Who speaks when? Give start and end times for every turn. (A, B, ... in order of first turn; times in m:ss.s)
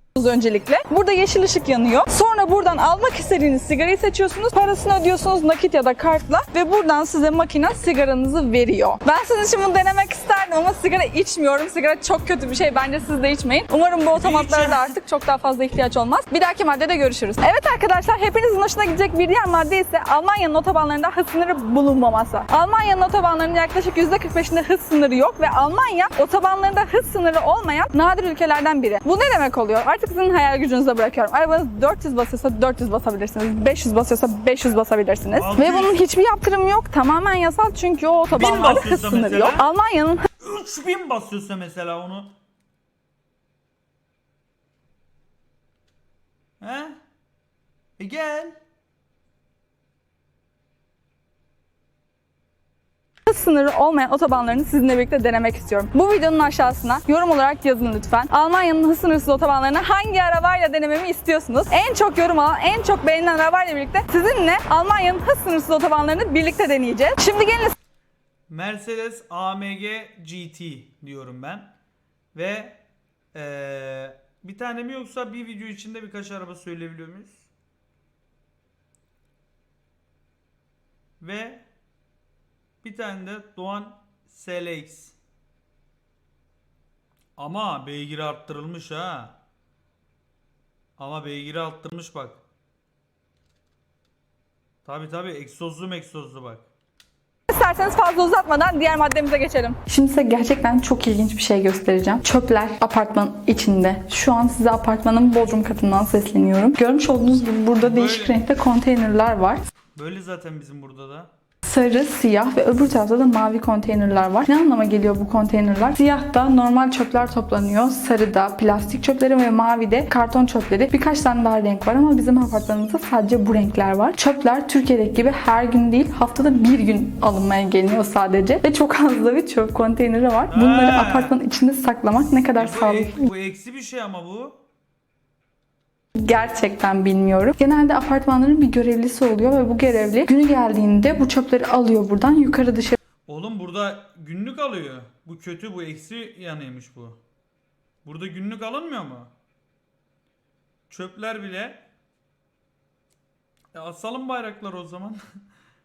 0:00.2-0:40.2 A
0:14.1-0:15.0 B
0:35.3-0:36.0 B
0:38.3-0:39.7 B
0:40.4-0:42.3 B
0:46.6-0:47.0 B
0:48.0-0:48.6 B
0:53.3-1:07.7 A
1:08.5-1:11.7 B
1:12.3-1:12.8 B
1:13.3-1:17.5 B
1:21.2-1:21.6 B
1:22.8-1:25.1 B
1:27.4-1:29.4 B
1:31.0-1:32.4 B
1:34.8-1:36.7 B
1:37.5-1:49.6 A
1:47.8-1:48.4 B
1:50.0-1:51.3 B
1:51.6-2:13.2 A
2:10.5-2:11.3 B
2:12.6-2:14.6 B
2:16.2-2:23.0 A
2:23.3-2:27.2 B
2:28.0-2:29.3 B
2:30.9-2:31.8 B
2:33.7-2:35.2 B